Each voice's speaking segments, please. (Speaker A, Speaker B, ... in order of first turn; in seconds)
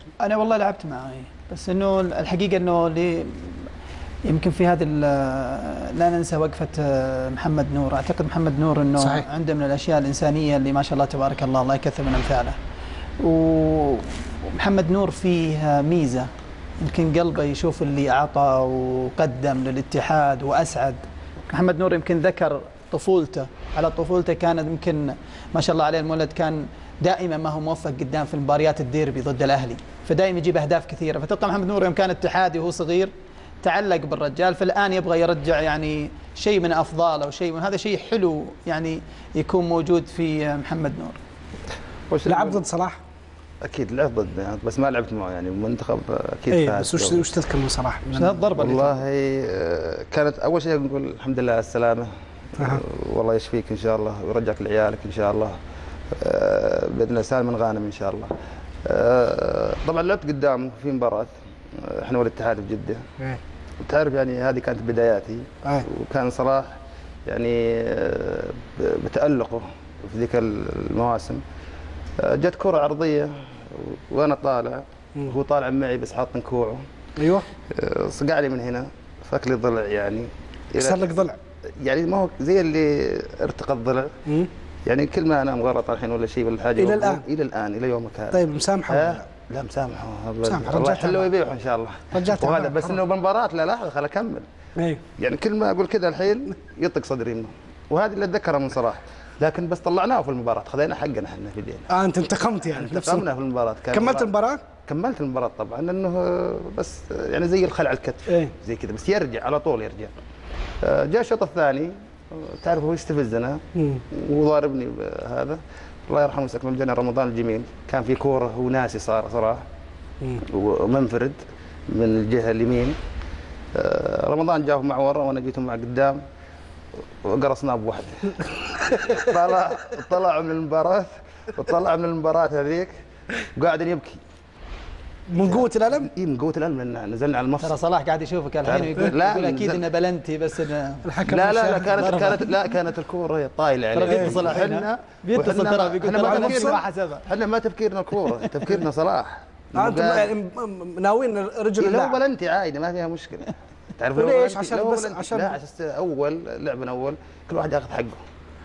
Speaker A: 0.2-3.7, 4.3-12.6, 13.2-16.3, 16.8-41.2, 48.1-49.0, 137.6-141.1, 141.9-142.5, 143.9-147.2
Speaker B: 9.0-9.3, 42.3-43.0, 46.5-48.5, 77.2-77.5, 80.8-81.4, 86.8-87.2, 88.3-89.3, 90.4-91.3, 92.1-93.0, 94.8-95.0, 101.9-103.2, 103.9-104.6, 108.3-108.5, 113.8-114.0, 135.3-136.1, 141.0-142.4, 144.1-144.7, 146.2-146.8, 149.8-152.2, 154.2-155.6
Speaker C: 42.1-42.6, 43.6-47.3, 48.6-52.1, 52.6-55.6, 56.2-58.3, 58.9-63.0, 63.8-66.7, 67.3-71.4, 72.2-76.8, 77.7-81.2, 81.8-84.1, 84.8-88.4, 88.9-94.5, 95.2-101.9, 102.7-104.3, 104.9-110.1, 110.8-113.6, 114.1-119.6, 120.5-123.0, 123.8-126.2, 127.2-132.9, 133.6-134.2, 135.4-137.7, 138.6-139.8, 141.3-150.3, 151.8-158.2